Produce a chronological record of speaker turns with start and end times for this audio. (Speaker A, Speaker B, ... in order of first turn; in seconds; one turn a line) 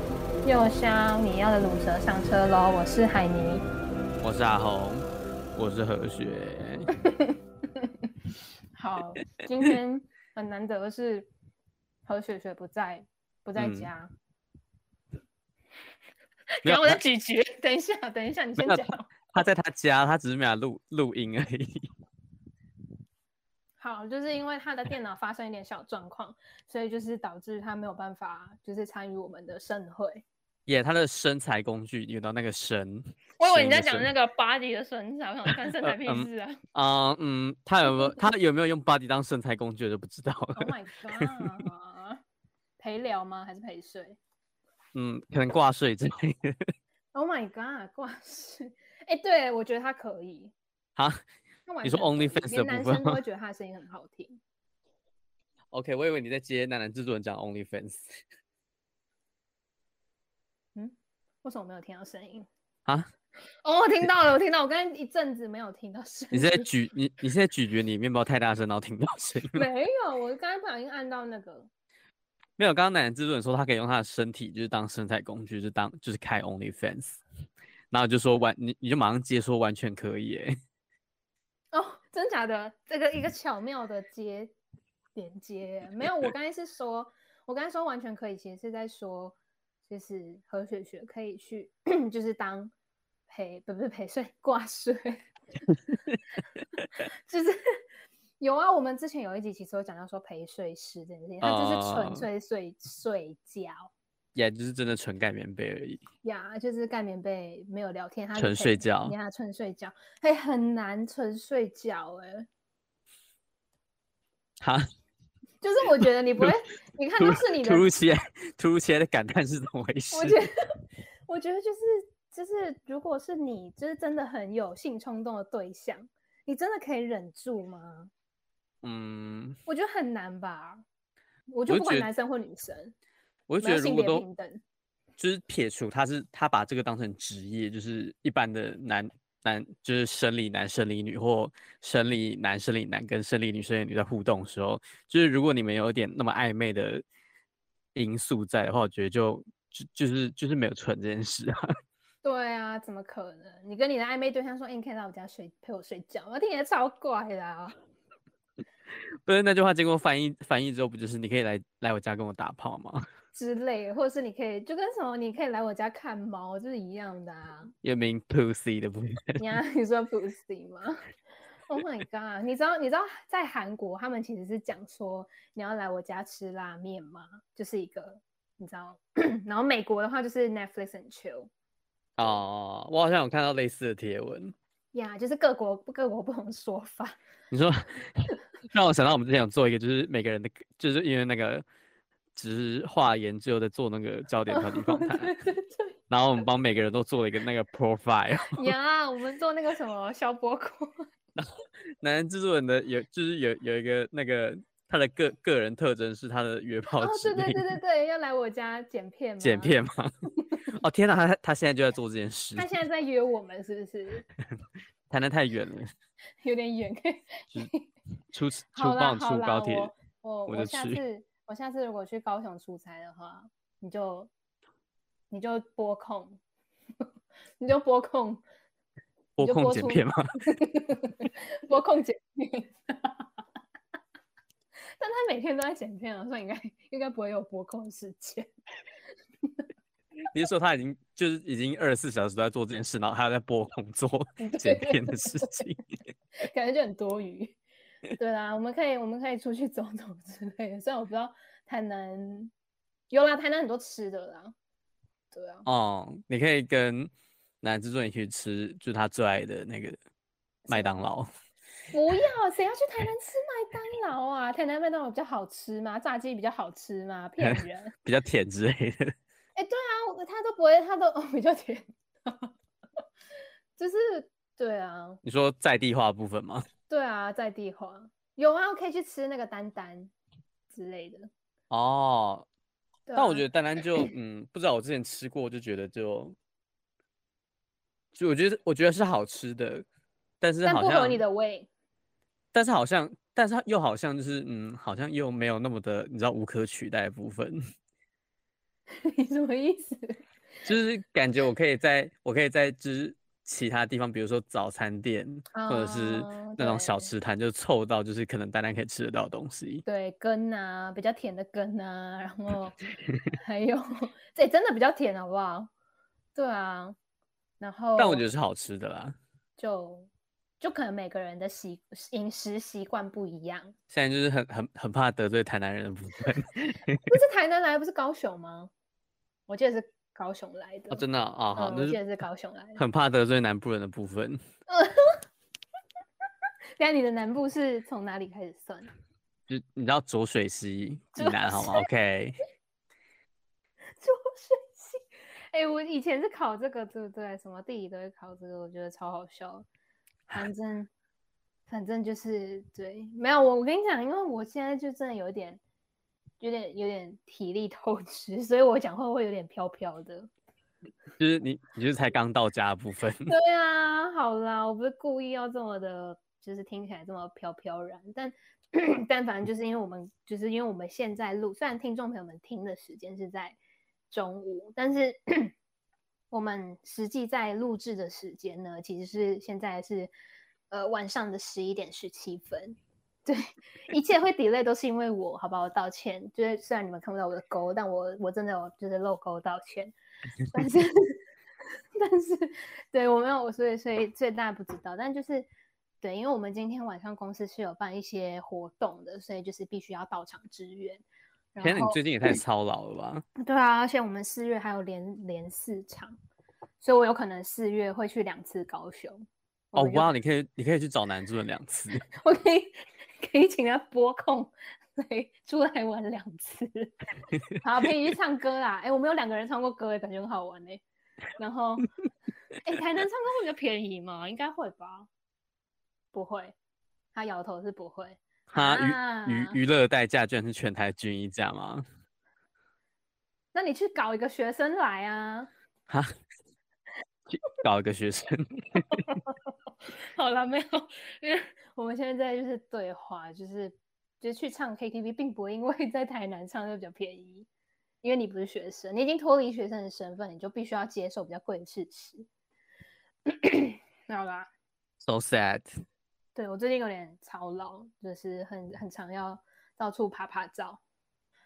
Speaker A: 0.4-3.6
Speaker B: 4.2-6.9
Speaker A: 7.0-8.1
Speaker A: 8.7-11.3
Speaker A: 12.1-14.1
Speaker B: 13.6-13.9
Speaker A: 16.6-19.3
Speaker B: 16.6-17.0
Speaker B: 18.6-21.9
Speaker A: 23.8-30.2
Speaker B: 30.7-34.1
Speaker A: 33.4-36.6
Speaker B: 35.8-41.7
Speaker A: 40.5-42.2
Speaker A: 42.8-44.2
Speaker B: 44.9-46.6
Speaker A: 47.1-50.5
Speaker A: 51.7-54.4
Speaker B: 51.8-53.2
Speaker B: 55.7-58.1
Speaker A: 60.8-62.5
Speaker A: 63.6-66.7
Speaker B: 66.3-69.6
Speaker A: 69.5-71.7
Speaker B: 72.6-77.2
Speaker B: 77.9-80.5
Speaker A: 81.7-84.5
Speaker A: 85.2-89.4
Speaker A: 89.9-92.7
Speaker A: 93.3-95.2
Speaker A: 97.0-97.6
Speaker A: 98.4-103.9
Speaker B: 101.4-102.2
Speaker B: 104.3-106.0
Speaker A: 106.2-112.5
Speaker B: 108.4-109.1
Speaker A: 115.6-117.8
Speaker B: 116.0-116.5
Speaker B: 117.2-120.4
Speaker A: 120.1-120.5
Speaker A: 121.3-128.1
Speaker B: 128.8-129.6
Speaker A: 129.7-130.8
Speaker A: 131.5-132.9
Speaker B: 131.7-132.1
Speaker B: 133.5-134.2
Speaker A: 133.6-134.6
Speaker B: 135.2-147.0
Speaker B: 147.9-151.7
Speaker A: 152.2-157.8
Speaker B: 159.2-163.1
Speaker A: 163.3-167.7
Speaker B: 167.8-169.4
Speaker A: 169.4-171.0
Speaker A: 171.7-181.5
Speaker B: 182.2-184.5
Speaker A: 184.9-187.2
Speaker B: 187.5-191.6
Speaker B: 192.3-195.3
Speaker A: 194.5-195.9
Speaker B: 196.1-198.7
Speaker A: 198.5-201.1
Speaker B: 202.0-207.7
Speaker A: 206.9-209.8
Speaker B: 209.4-210.1
Speaker A: 210.4-210.7
Speaker B: 210.7-212.7
Speaker A: 212.6-214.3
Speaker B: 215.1-215.9
Speaker A: 216.4-217.9
Speaker B: 218.3-219.9
Speaker A: 218.7-224.3
Speaker B: 220.5-221.0
Speaker A: 225.3-226.4
Speaker A: 227.6-228.4
Speaker B: 229.4-230.2
Speaker A: 229.4-233.2
Speaker A: 235.0-238.5
Speaker B: 240.3-245.8
Speaker A: 244.4-245.6
Speaker A: 246.4-247.6
Speaker A: 248.2-252.5
Speaker A: 253.1-254.5
Speaker A: 255.3-255.7
Speaker B: 255.7-257.1
Speaker B: 257.6-260.0
Speaker A: 260.7-261.0
Speaker B: 260.7-261.3
Speaker A: 261.9-267.9
Speaker B: 267.4-269.1
Speaker A: 269.6-272.5
Speaker A: 273.8-275.2
Speaker B: 275.2-276.6
Speaker A: 276.9-280.1
Speaker A: 280.7-281.3
Speaker B: 281.7-282.5
Speaker A: 283.1-284.1
Speaker B: 283.1-286.4
Speaker B: 288.1-289.8
Speaker B: 290.4-291.2
Speaker A: 290.6-291.7
Speaker B: 292.5-297.6
Speaker A: 298.9-300.2
Speaker B: 300.6-309.8
Speaker A: 305.5-307.1
Speaker A: 309.9-315.7
Speaker A: 316.3-317.0
Speaker A: 317.6-318.2
Speaker B: 318.0-319.1
Speaker A: 319.6-323.7
Speaker B: 323.9-327.0
Speaker A: 327.1-328.7
Speaker A: 329.5-331.0
Speaker B: 330.9-332.0
Speaker A: 331.6-332.8
Speaker B: 332.8-334.4
Speaker A: 334.7-335.2
Speaker A: 336.8-338.9
Speaker B: 339.5-342.4
Speaker A: 341.1-341.9
Speaker A: 344.0-345.0
Speaker A: 345.5-349.6
Speaker A: 350.3-350.9
Speaker A: 351.7-355.6
Speaker A: 356.4-360.3
Speaker B: 361.2-363.3
Speaker A: 363.3-373.6
Speaker A: 374.1-375.5
Speaker A: 376.3-380.1
Speaker A: 380.7-389.9
Speaker A: 390.5-391.2
Speaker A: 392.0-395.5
Speaker A: 396.0-401.0
Speaker A: 401.5-402.0
Speaker B: 401.6-403.2
Speaker A: 403.4-406.1
Speaker A: 406.8-410.1
Speaker B: 409.7-412.0
Speaker A: 412.1-416.9
Speaker A: 417.6-420.8
Speaker A: 421.4-421.9
Speaker A: 422.5-425.1
Speaker A: 426.1-426.5
Speaker A: 427.1-429.6
Speaker B: 428.5-431.8
Speaker A: 433.5-435.5
Speaker B: 437.3-439.2
Speaker A: 438.8-439.5
Speaker A: 440.1-447.5
Speaker A: 448.0-452.3
Speaker A: 453.3-454.5
Speaker B: 455.0-455.8
Speaker A: 456.3-460.8